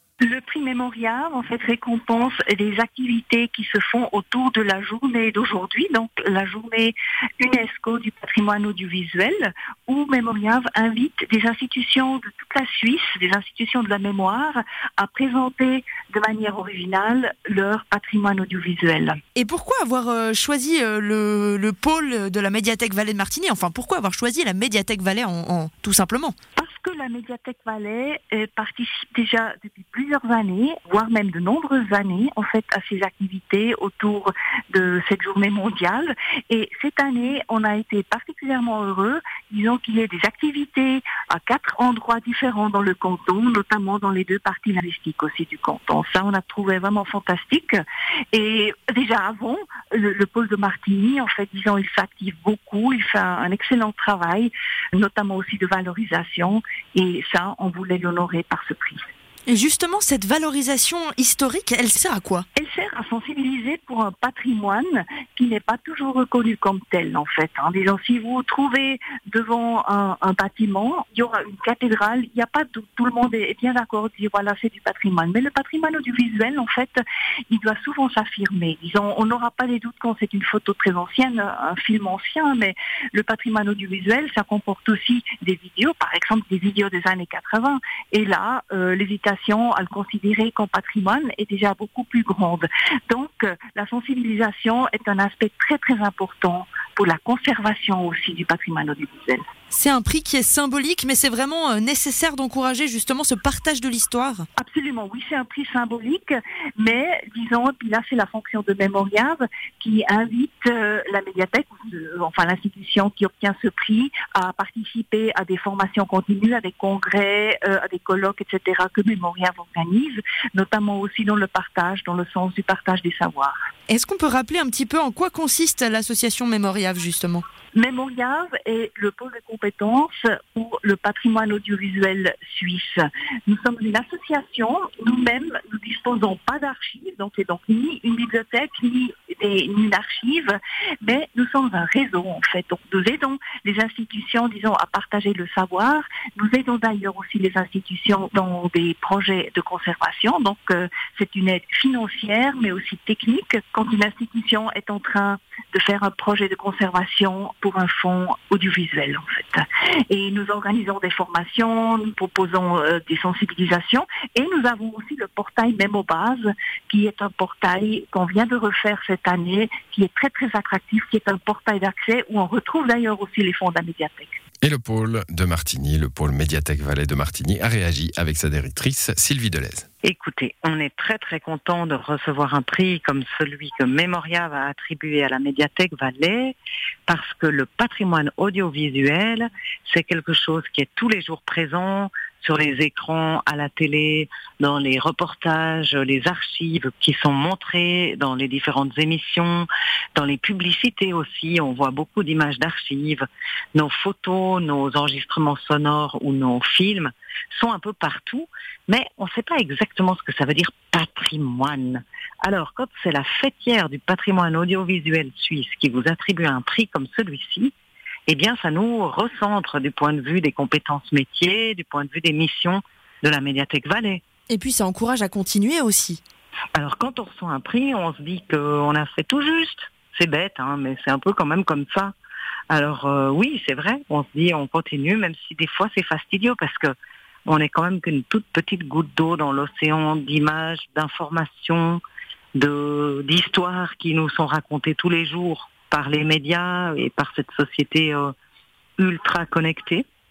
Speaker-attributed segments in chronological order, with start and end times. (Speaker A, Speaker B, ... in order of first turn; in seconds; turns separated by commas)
Speaker A: 0.2-19.2, Speaker B: 19.4-26.4, Speaker A: 26.6-47.8, Speaker A: 48.3-59.0, Speaker B: 59.5-62.4, Speaker A: 62.6-77.0, Speaker A: 77.5-99.4, Speaker B: 99.7-104.5, Speaker A: 104.6-123.6, Speaker B: 123.9-127.4, Speaker A: 127.7-174.4, Speaker C: 174.6-179.9, Speaker D: 180.0-186.6, Speaker D: 187.1-217.7, Speaker D: 218.3-224.2, Speaker B: 224.5-226.2, Speaker D: 226.8-232.1, Speaker D: 232.7-236.9, Speaker D: 237.5-242.0, Speaker D: 242.6-248.3, Speaker D: 249.0-250.1